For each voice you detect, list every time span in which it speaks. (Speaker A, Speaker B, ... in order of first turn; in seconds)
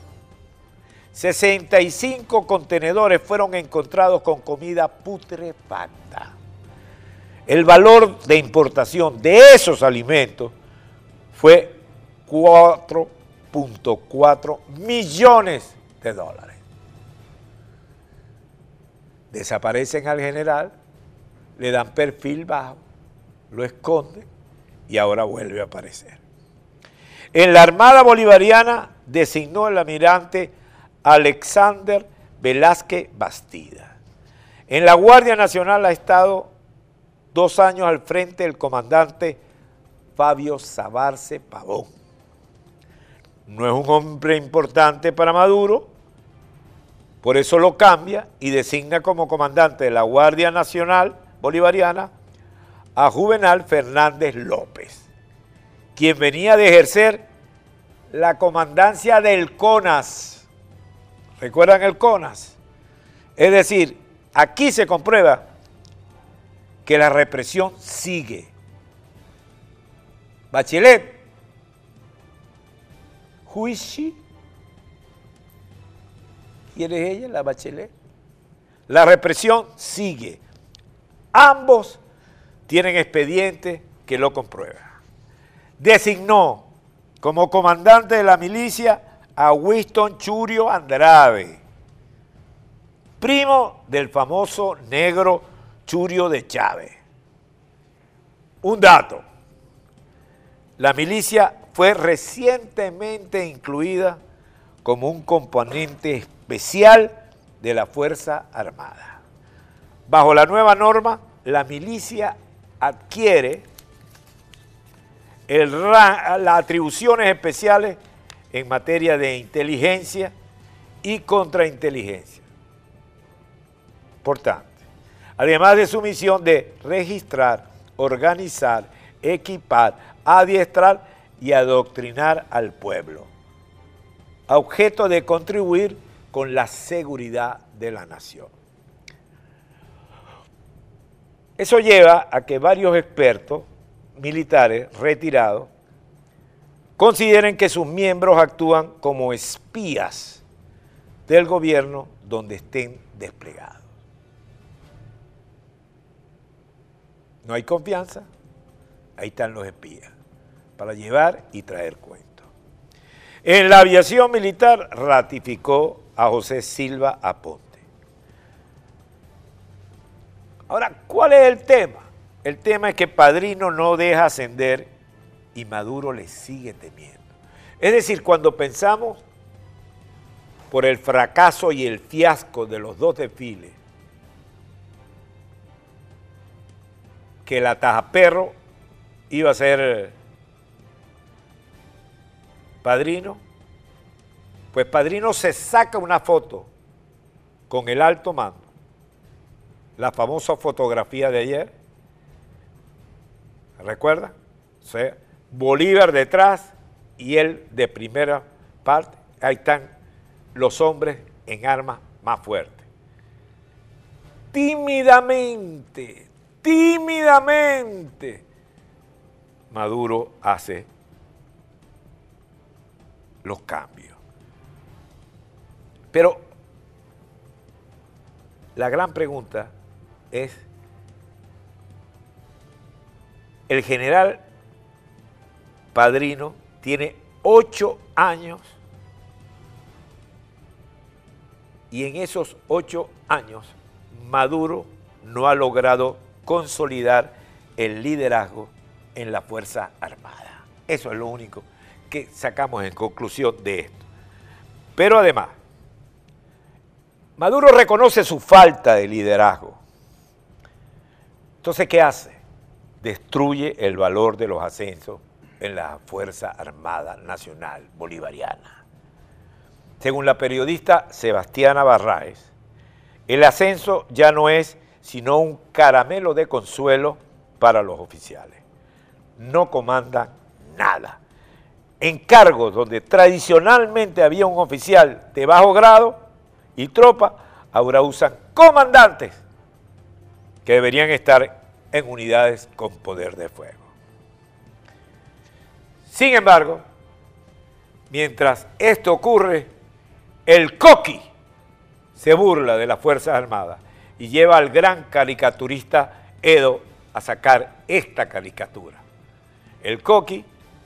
Speaker A: 1.1-6.3, 7.5-10.5, 11.3-16.6, 19.3-20.7, 21.6-22.8, 23.5-24.3, 24.9-26.2, 27.3-34.0, 34.7-36.5, 37.3-39.4, 40.1-41.9, 43.5-45.9, 47.2-52.1, 52.9-55.1, 56.0-57.2, 58.1-60.5, 61.4-62.6, 63.4-65.4, 66.8-68.5, 70.5-71.2, 73.5-74.2, 76.7-77.9, 78.9-80.4, 81.3-82.0, 82.7-84.9, 85.8-86.7, 87.2-91.6, 93.2-97.0, 98.6-99.2, 100.8-104.2, 104.8-109.2, 110.1-113.6, 115.5-118.0, 118.5-120.3, 121.0-122.5, 124.2-124.7, 125.4-133.3, 134.5-138.5, 141.6-145.7, 147.0-150.4, 151.3-153.8, 157.4-158.3, 159.2-160.1, 160.8-162.5, 163.4-167.8, 170.7-174.9, 175.5-177.2, 177.8-179.2, 180.7-183.8, 187.4-188.5, 189.3-190.1, 192.8-193.4, 194.7-196.7, 197.7-198.7, 200.0-201.7, 203.8-209.9, 210.5-212.8, 214.5-218.4, 219.7-220.9, 223.4-224.2, 226.1-226.4, 228.8-229.7, 230.3-230.6, 233.7-234.4, 235.9-238.8, 241.9-254.0, 254.9-255.5, 257.4-259.8, 261.6-262.4, 263.0-268.8, 270.0-272.5, 273.3-278.6, 279.4-281.2, 282.0-286.2, 286.8-289.4, 290.6-293.9, 296.1-296.8, 298.1-299.7, 300.4-301.2, 302.1-309.0, 309.8-310.5